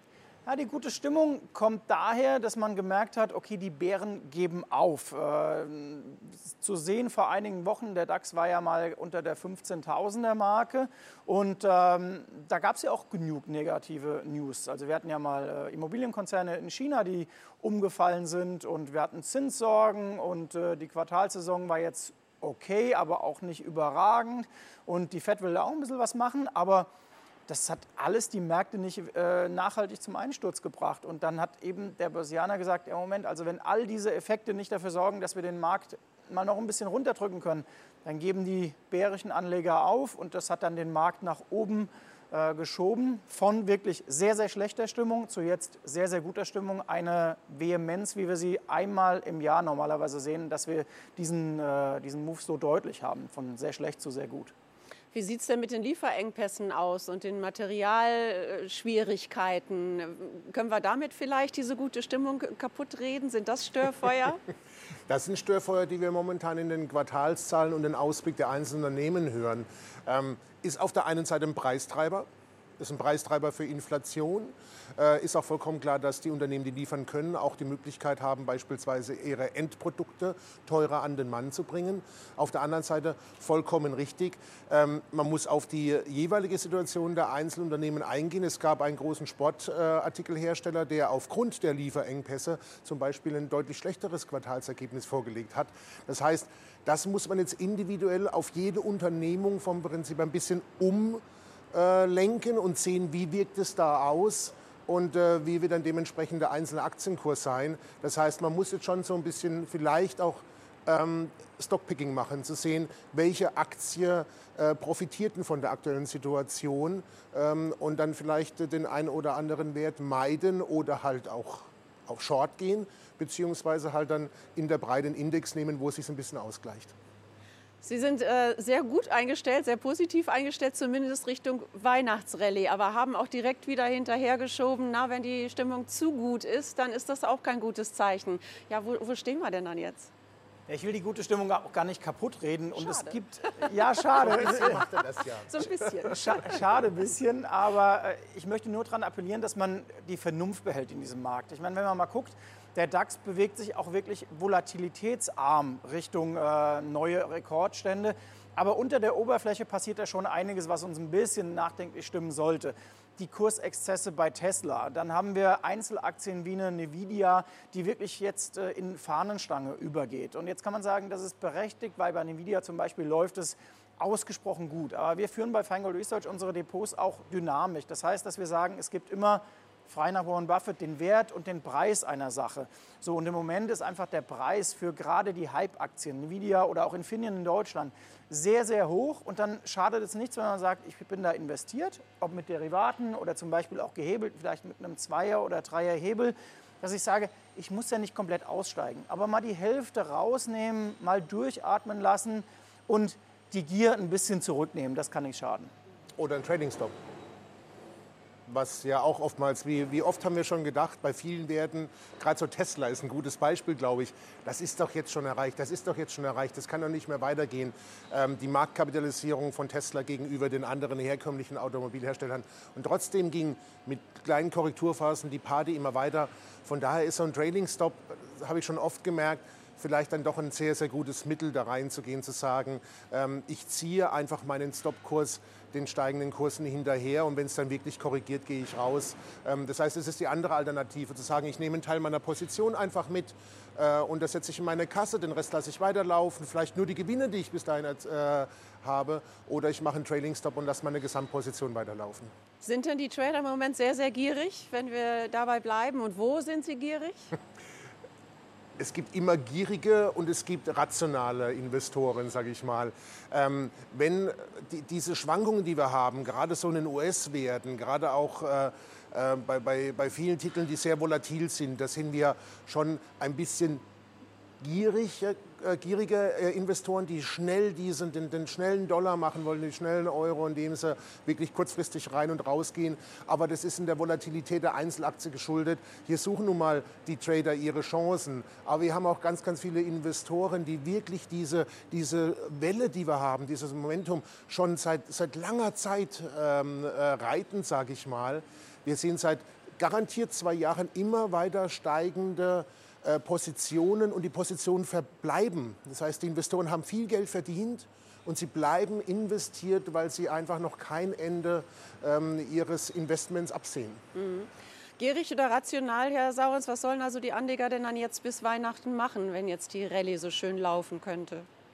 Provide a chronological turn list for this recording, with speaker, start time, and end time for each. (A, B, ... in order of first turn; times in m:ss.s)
0:00.4-0:26.9 A
0:27.5-0:54.5 A
0:55.1-1:04.4 B
1:05.1-1:12.3 C
1:12.8-2:06.9 C
2:07.8-2:20.1 B
2:20.7-2:24.8 A
2:22.7-2:24.8 B
2:24.2-2:25.7 C
2:25.4-2:26.4 B
2:26.0-3:25.7 A
3:26.2-3:26.9 C
3:28.5-4:12.3 C
4:12.6-4:17.3 B
4:18.8-4:33.8 C
4:34.6-5:14.0 C
5:14.1-5:21.5 B